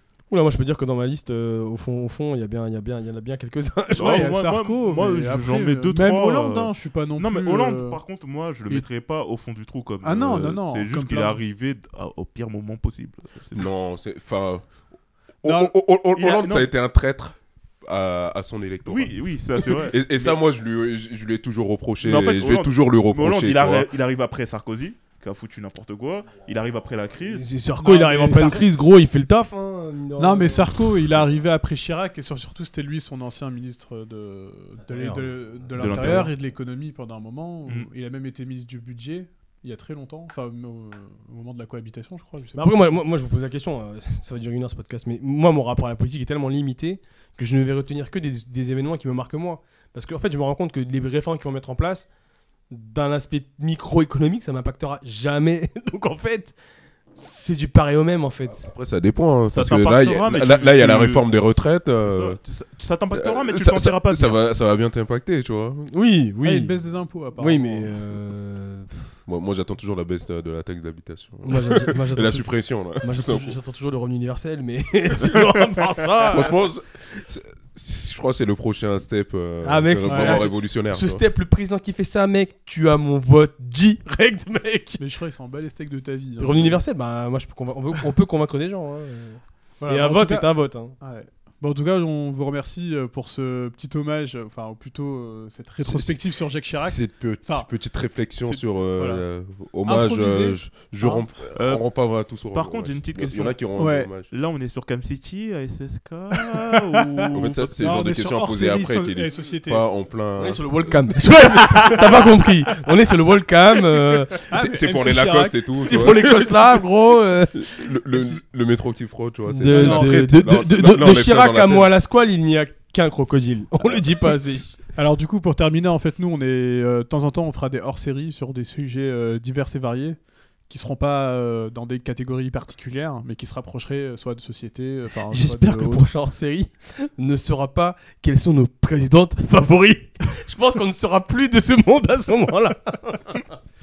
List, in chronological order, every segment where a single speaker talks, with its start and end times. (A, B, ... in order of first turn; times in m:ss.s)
0:00.3-0:04.3 A
0:04.0-0:13.7 B
0:04.0-0:08.0 C
0:10.0-0:11.4 C
0:13.5-0:14.6 D
0:15.4-0:23.9 D
0:15.4-0:15.7 C
0:16.2-0:16.7 B
0:18.9-0:20.4 B
0:22.0-0:27.5 B
0:27.3-0:30.7 A
0:27.8-0:28.7 C
0:30.2-0:42.7 C
0:34.9-0:36.3 A
0:35.8-0:36.3 B
0:42.6-0:52.1 A
0:52.7-0:56.6 A
0:57.2-0:58.7 A
0:58.5-1:02.4 D
0:59.5-1:01.2 B
1:02.1-1:04.4 B
1:03.1-1:05.9 D
1:05.9-1:06.7 A
1:06.4-1:07.9 C
1:07.4-1:09.0 A
1:09.3-1:13.6 D
1:11.4-1:12.5 A
1:13.0-1:16.6 A
1:16.2-1:21.2 D
1:19.6-1:25.0 A
1:20.0-1:20.4 C
1:25.0-1:26.8 C
1:26.4-1:30.9 A
1:29.8-1:37.7 C
1:35.8-1:36.2 D
1:36.8-1:44.3 D
1:38.4-1:39.2 C
1:39.9-1:41.3 C
1:41.6-1:41.9 B
1:42.5-1:43.6 B
1:43.8-1:44.1 C
1:44.2-1:47.8 B
1:46.4-1:47.3 C
1:47.3-1:51.0 D
1:47.8-1:49.9 C
1:50.4-1:54.4 A
1:54.4-1:56.5 C
1:54.5-1:56.6 D
1:55.8-1:57.7 A
1:57.6-2:01.9 D
1:59.5-2:04.7 A
1:59.7-2:00.3 C
2:03.8-2:04.2 D
2:05.0-2:10.2 C
2:10.7-2:16.1 C
2:15.3-2:23.5 A